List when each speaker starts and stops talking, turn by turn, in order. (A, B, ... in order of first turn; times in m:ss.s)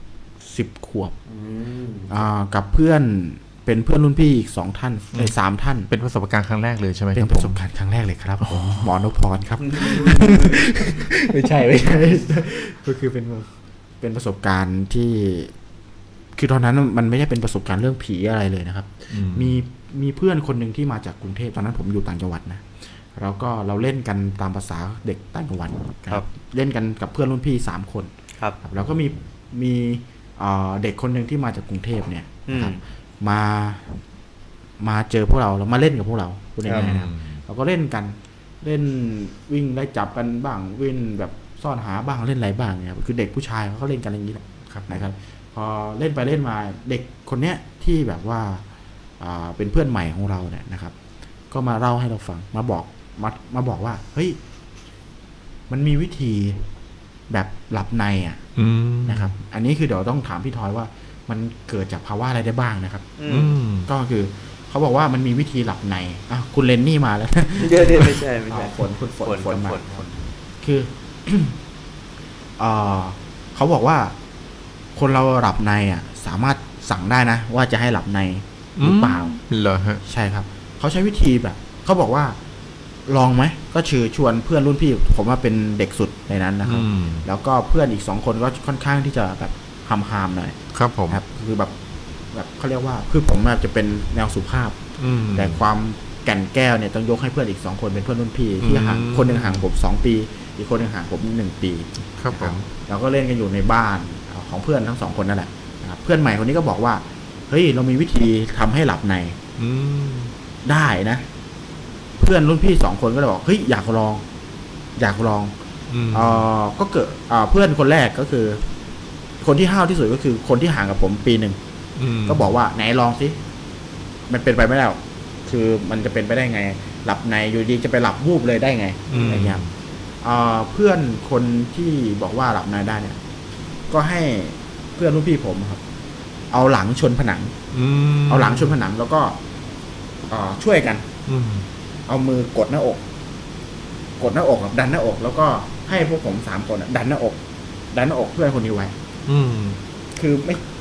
0:00.4-0:01.1 A
0:01.3-0:02.1 B
0:02.1-0:05.9 A
0:05.9-0:07.6 C
0:07.2-0:15.5 A
0:08.4-0:08.9 C
0:09.7-0:10.6 B
0:16.4-0:28.1 A
0:19.1-0:19.6 C
0:28.6-0:34.0 A
0:32.5-0:32.8 B
0:34.8-0:48.6 A
0:36.7-0:37.0 B
0:36.7-0:37.4 C
0:44.7-0:45.1 C
0:49.2-0:50.9 A
0:51.5-0:54.4 A
0:55.7-0:56.6 A
0:57.3-0:58.4 A
0:58.6-0:59.3 C
0:59.0-1:03.1 A
1:03.2-1:03.5 B
1:03.3-1:03.9 C
1:03.9-1:11.6 A
1:07.6-1:10.1 B
1:12.6-1:14.2 A
1:15.0-1:19.4 A
1:18.8-1:20.0 C
1:20.0-1:22.4 A
1:23.1-1:30.6 A
1:26.6-1:27.3 C
1:30.7-1:31.2 C
1:31.1-1:31.8 A
1:32.3-1:34.8 A
1:35.0-1:35.6 C
1:35.3-1:49.4 A
1:38.6-1:39.7 C
1:42.2-1:42.7 C
1:49.6-1:50.3 C
1:50.6-1:51.3 A
1:52.2-1:54.2 A
1:55.0-1:55.6 A
1:55.9-1:56.5 C
1:56.1-1:58.6 A
1:59.4-2:01.6 A
2:02.0-2:02.5 C
2:02.2-2:03.4 A
2:04.3-2:09.6 A
2:09.1-2:09.7 C
2:10.2-2:13.2 A
2:13.9-2:15.8 A
2:16.5-2:17.6 A
2:17.7-2:18.8 C
2:18.3-2:19.4 A
2:20.3-2:21.1 A
2:21.3-2:21.7 C
2:22.1-2:23.0 A
2:24.2-2:27.4 A
2:27.9-2:28.9 A
2:29.3-2:29.8 C
2:30.2-2:30.6 A